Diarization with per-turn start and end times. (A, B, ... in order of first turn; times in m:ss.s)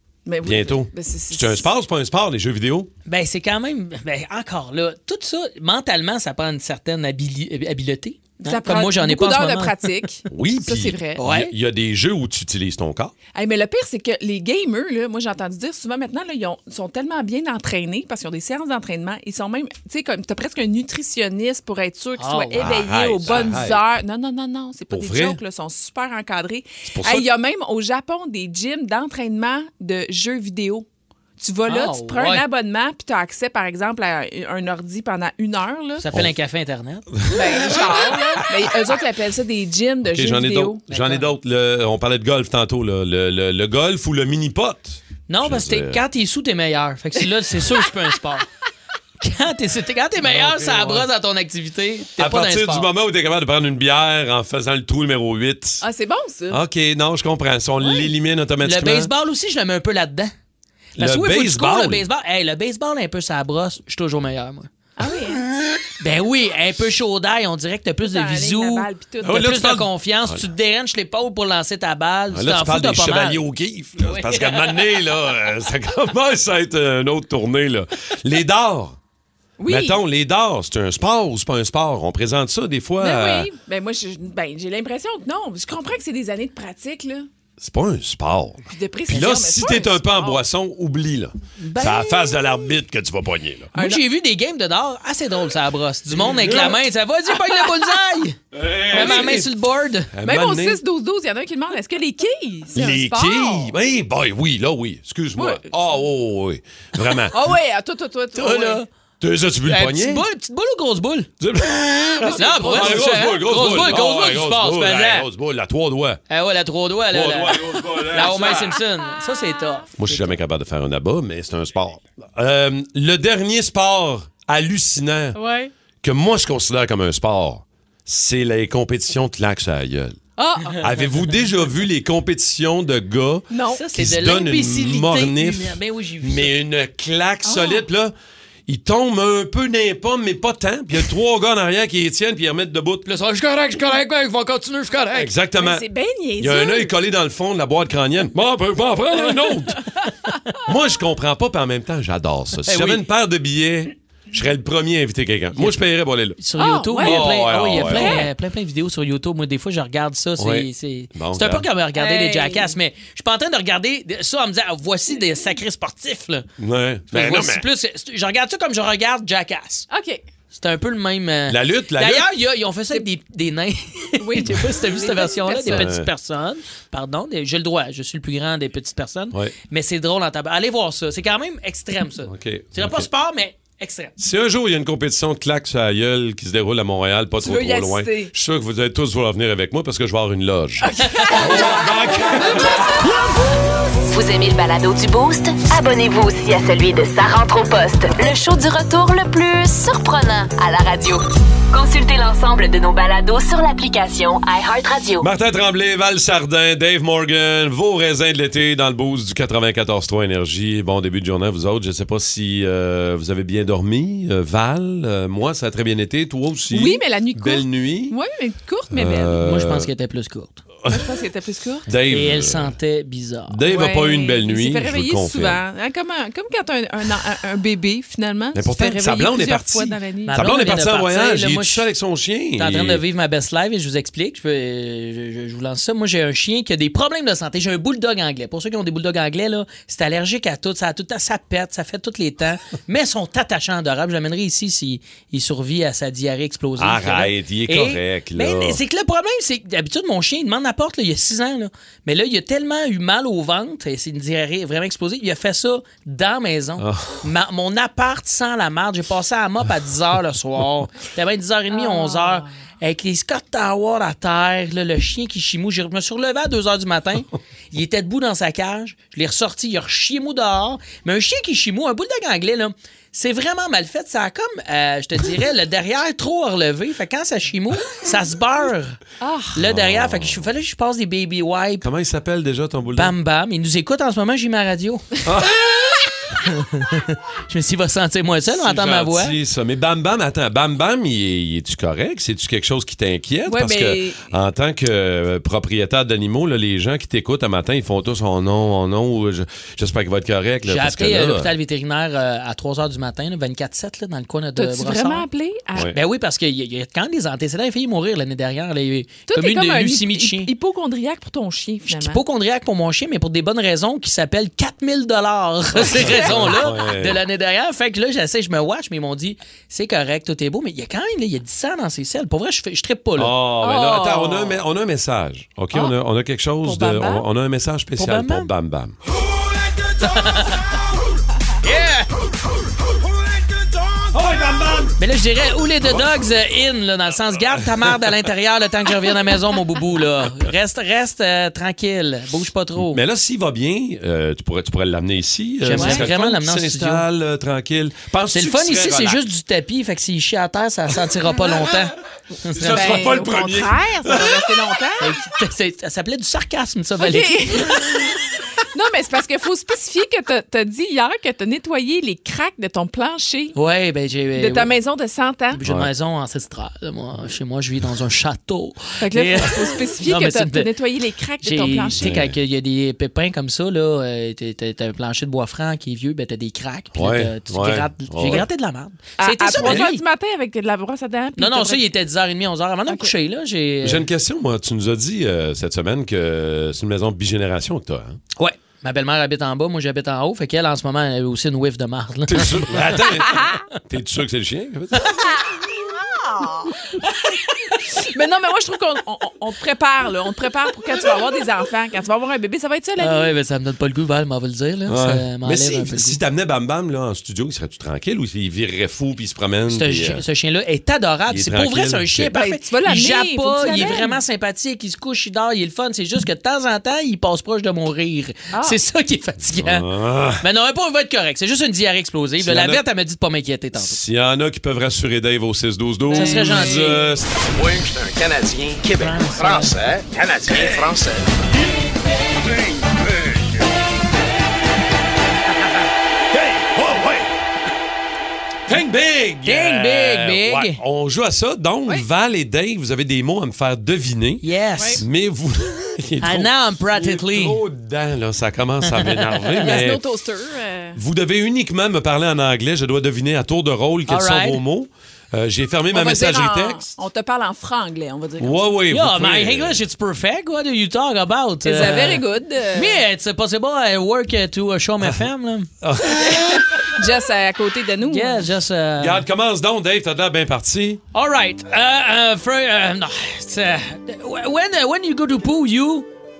0:00.2-0:01.7 A
0:00.4-0:02.9 B
0:03.0-0:09.8 C
0:08.4-0:11.2 A
0:10.3-0:13.1 B
0:11.2-0:11.5 C
0:13.3-0:30.9 A
0:22.2-0:22.7 C
0:22.6-0:23.8 B
0:23.3-0:23.6 C
0:24.9-0:25.4 B
0:26.8-0:27.3 B
0:31.4-0:36.0 A
0:31.7-0:32.4 C
0:36.0-0:37.1 C
0:37.1-0:38.2 B
0:37.3-0:40.8 A
0:40.0-0:46.0 B
0:40.9-0:41.3 C
0:45.3-0:48.4 C
0:49.2-0:52.9 C
0:50.2-0:51.1 B
0:52.2-0:55.8 B
0:55.8-0:56.6 A
0:56.5-0:59.1 B
0:58.6-1:00.3 C
1:01.0-1:02.0 B
1:01.0-1:04.7 C
1:05.0-1:05.4 A
1:05.5-1:13.4 C
1:08.0-1:09.4 A
1:09.2-1:10.4 B
1:12.3-1:19.0 B
1:14.0-1:14.8 C
1:19.6-1:20.0 A
1:19.7-1:23.5 B
1:23.0-1:27.3 A
1:27.6-1:33.7 B
1:28.7-1:30.4 A
1:31.6-1:32.6 C
1:33.7-1:38.4 C
1:33.8-1:34.0 A
1:36.1-1:36.8 B
1:38.5-1:39.5 B
1:38.9-1:39.4 A
1:38.9-1:40.1 C
1:40.1-1:40.8 B
1:40.2-1:43.7 A
1:42.7-1:47.5 B
1:45.4-1:45.7 A
1:47.3-1:48.8 A
1:48.4-1:48.9 C
1:49.2-1:50.2 B
1:49.7-1:51.3 C
1:51.4-1:56.2 B
1:52.2-1:53.8 A
1:52.4-1:55.3 C
1:56.3-2:00.4 C
1:57.1-1:58.8 B
2:00.0-2:05.4 B
2:05.4-2:05.7 A
2:06.0-2:10.2 B
2:10.4-2:10.8 A
2:10.8-2:18.1 B
2:13.5-2:13.8 A
2:13.7-2:16.5 C
2:17.4-2:17.8 A
2:18.7-2:23.0 B
2:23.0-2:25.3 C
2:25.1-2:25.8 B
2:25.6-2:26.9 A
2:26.4-2:29.8 B
2:30.6-2:36.4 B
2:32.6-2:33.0 C
2:36.4-2:46.5 C
2:36.6-2:38.3 A
2:37.0-2:38.2 B
2:40.4-2:41.7 B
2:41.9-2:42.7 A
2:46.6-2:47.6 B
2:47.1-2:49.9 C
2:49.9-2:50.2 A
2:50.5-3:04.1 C
2:51.5-2:52.3 B
2:54.2-2:55.9 A
2:55.7-2:56.1 B
3:02.2-3:03.1 B
3:04.2-3:13.3 B
3:07.4-3:08.3 A
3:10.8-3:12.9 A
3:11.3-3:11.6 C
3:14.1-3:25.3 D
3:25.2-3:38.2 B
3:36.7-3:39.4 A
3:38.9-3:39.9 B
3:39.4-3:40.6 C
3:40.8-3:41.1 B
3:40.9-3:41.8 A
3:41.9-3:42.7 B
3:42.1-3:43.6 C
3:43.5-3:45.6 B
3:43.6-3:50.4 A
3:48.5-3:53.0 B
3:50.2-3:51.8 C
3:52.6-4:39.0 C
4:06.8-4:08.8 B
4:16.8-4:17.2 B
4:21.7-4:22.5 A
4:39.2-4:39.5 A
4:39.5-4:41.8 C
4:39.6-4:40.5 B
4:41.8-4:43.1 B
4:42.9-4:45.2 C
4:45.2-4:45.7 B
4:46.2-4:49.4 C
4:48.5-5:01.5 B
4:53.5-4:54.2 A
5:00.7-5:05.3 C
5:04.6-5:05.9 A
5:05.9-5:10.5 C
5:09.3-5:12.2 A
5:11.9-5:23.4 C
5:15.8-5:17.2 B
5:15.8-5:16.6 A
5:23.2-5:29.0 B
5:23.6-5:24.6 A
5:26.6-5:27.2 A
5:28.0-5:28.5 C
5:30.0-5:30.7 C
5:31.6-5:32.1 C
5:34.1-5:35.0 B
5:35.0-5:43.0 C
5:35.8-5:36.1 B
5:37.6-5:38.0 B
5:42.8-5:49.2 B
5:45.6-5:47.0 C
5:45.7-5:46.1 A
5:48.3-5:53.2 C
5:52.5-5:54.5 B
5:52.7-5:55.1 A
5:55.0-5:57.7 C
5:57.0-5:58.2 A
5:58.7-6:03.6 A
6:03.5-6:04.7 C
6:04.4-6:05.6 A
6:05.5-6:10.7 C
6:05.6-6:05.9 B
6:09.0-6:12.0 A
6:11.4-6:20.0 C
6:11.9-6:12.3 B
6:16.9-6:18.4 B
6:19.2-6:21.8 A
6:19.6-6:19.8 B
6:21.4-6:24.0 C
6:23.8-6:28.2 B
6:28.4-6:33.0 C
6:32.3-6:35.3 B
6:36.1-6:43.3 A
6:43.0-6:46.2 C
6:44.9-6:50.2 B
6:49.7-6:59.9 C
6:51.3-6:52.3 B
6:52.3-6:54.2 A
6:58.5-6:58.8 A
6:59.5-7:00.4 B
7:00.4-7:04.0 C
7:02.4-7:02.8 B
7:03.7-7:07.3 B
7:06.1-7:07.0 A
7:06.1-7:07.0 C
7:07.5-7:11.3 E
7:09.0-7:09.7 C
7:10.5-7:10.8 B
7:16.3-7:17.3 B
7:18.7-7:24.4 B
7:19.4-7:20.8 C
7:24.4-7:25.0 C
7:24.8-7:25.0 A
7:25.0-7:30.0 B
7:26.2-7:27.6 C
7:29.0-7:29.7 C
7:29.6-7:31.0 A
7:31.0-7:36.9 B
7:34.1-7:34.6 C
7:35.9-7:38.6 A
7:38.4-7:39.8 B
7:38.9-7:45.7 C
7:41.6-7:43.0 A
7:45.8-7:46.9 B
7:46.2-7:48.5 A
7:48.1-7:49.2 C
7:49.0-7:51.0 B
7:51.1-7:56.1 C